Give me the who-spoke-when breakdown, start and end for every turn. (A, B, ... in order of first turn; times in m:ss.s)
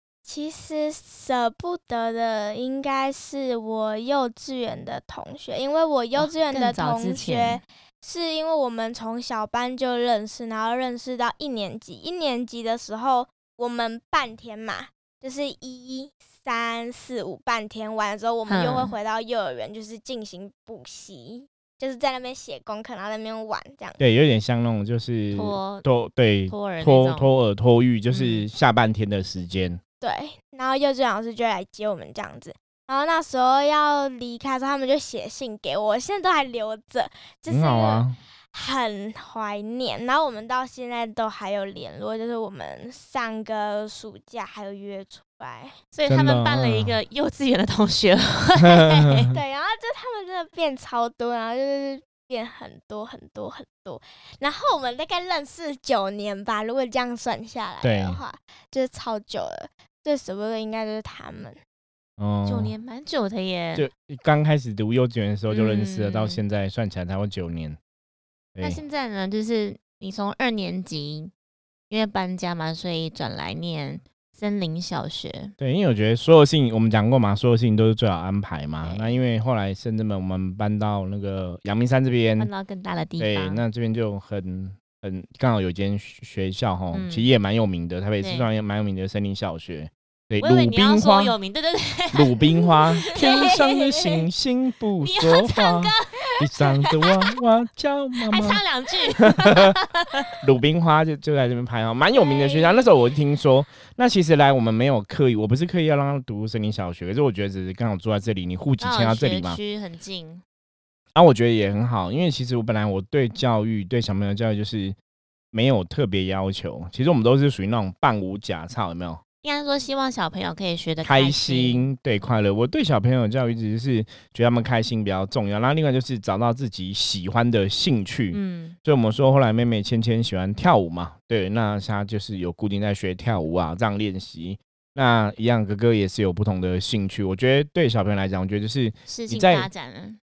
0:00.2-0:24.0 A
0:06.1-0:07.6 B
0:18.5-0:18.9 B
0:24.0-0:29.8 C
0:25.3-0:25.8 B
0:26.5-0:27.3 B
0:28.1-0:28.4 B
0:30.0-0:45.7 A
0:37.5-0:38.2 C
0:45.9-0:49.3 B
0:46.0-0:47.0 C
0:48.6-0:49.2 C
0:49.3-1:01.6 A
0:57.8-0:58.2 C
1:02.2-1:02.7 C
1:02.4-1:03.9 B
1:03.8-1:07.8 C
1:05.5-1:06.4 B
1:08.5-1:08.8 C
1:08.6-1:11.3 B
1:11.9-1:15.5 B
1:15.6-1:22.5 C
1:18.8-1:19.1 B
1:22.4-1:23.6 B
1:23.2-1:31.4 C
1:26.9-1:27.3 B
1:28.2-1:28.5 B
1:30.4-1:32.5 B
1:32.1-1:38.6 C
1:33.1-1:33.5 B
1:33.2-1:34.1 A
1:35.0-1:36.1 B
1:38.3-1:40.3 B
1:39.2-1:39.7 C
1:40.4-1:49.6 C
1:42.1-1:42.9 A
1:48.8-1:50.4 B
1:51.1-1:55.0 C
1:55.5-1:59.2 C
1:59.4-2:01.9 B
2:01.0-2:19.7 C
2:08.3-2:08.7 B
2:19.1-2:20.2 B